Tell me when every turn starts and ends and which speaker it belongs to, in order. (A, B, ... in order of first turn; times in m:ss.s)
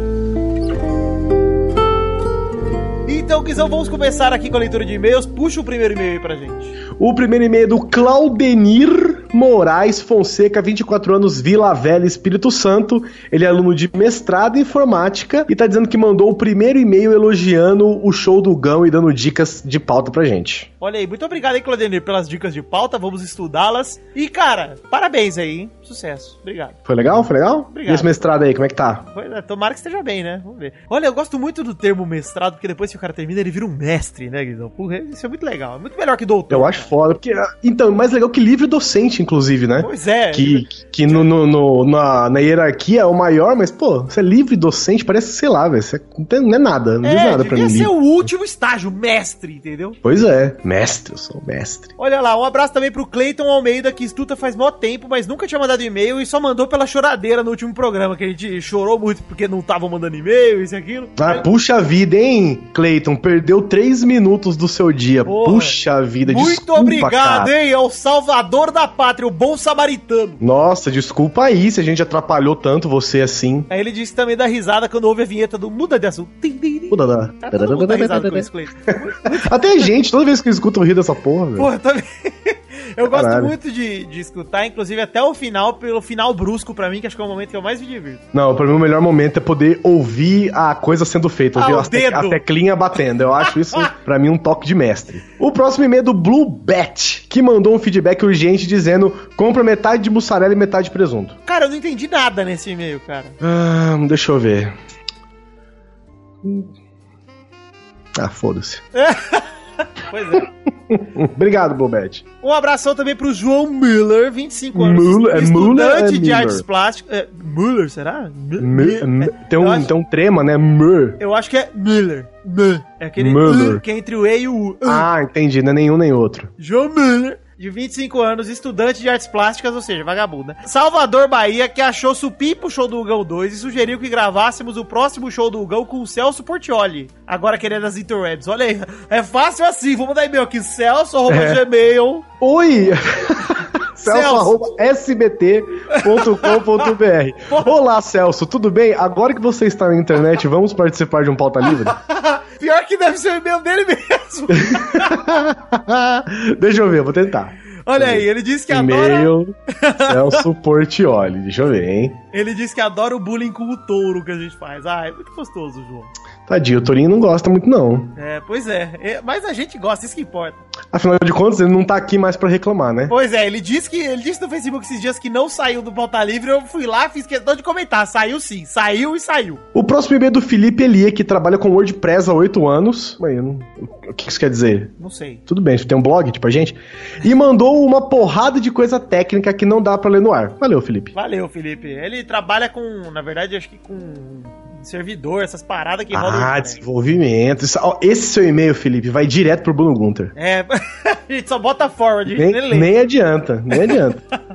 0:03.1-0:06.8 A
0:07.0-0:20.7 B
0:20.8-0:26.8 A
0:26.9-0:29.1 B
0:27.7-0:28.2 A
0:29.1-0:36.9 A
0:36.5-0:47.9 B
0:39.8-0:41.3 A
0:47.0-0:50.0 A
0:50.0-0:51.9 B
0:52.0-1:01.5 A
1:01.2-1:07.5 B
1:05.3-1:10.4 A
1:10.4-1:13.7 B
1:13.7-1:19.9 A
1:16.9-1:18.5 B
1:19.2-1:21.7 B
1:21.6-1:28.2 A
1:23.1-1:23.5 B
1:28.3-1:41.4 B
1:31.6-1:32.4 A
1:41.5-1:43.4 A
1:43.4-1:44.7 B
1:48.2-1:48.8 B
1:48.9-1:50.5 A
1:50.9-1:52.2 B
1:52.4-1:59.9 A
1:54.8-1:56.6 B
1:58.6-2:01.2 B
2:01.2-2:05.1 A
2:03.2-2:03.8 B
2:04.8-2:06.5 B
2:06.6-2:22.3 A
2:21.3-2:21.6 B
2:22.4-2:32.0 B
2:24.0-2:24.7 A
2:25.9-2:26.9 A
2:27.5-2:27.7 A
2:31.7-2:35.2 A
2:34.6-2:42.2 B
2:37.9-2:40.4 A
2:42.3-2:46.1 A
2:46.5-2:48.1 B
2:48.2-2:50.6 A
2:50.9-2:53.1 B
2:53.1-2:59.6 A
2:59.7-3:04.9 B
3:05.0-3:05.4 A
3:05.5-3:11.1 B
3:11.1-3:16.8 A
3:16.1-3:20.3 B
3:20.4-3:22.9 A
3:22.3-3:24.2 B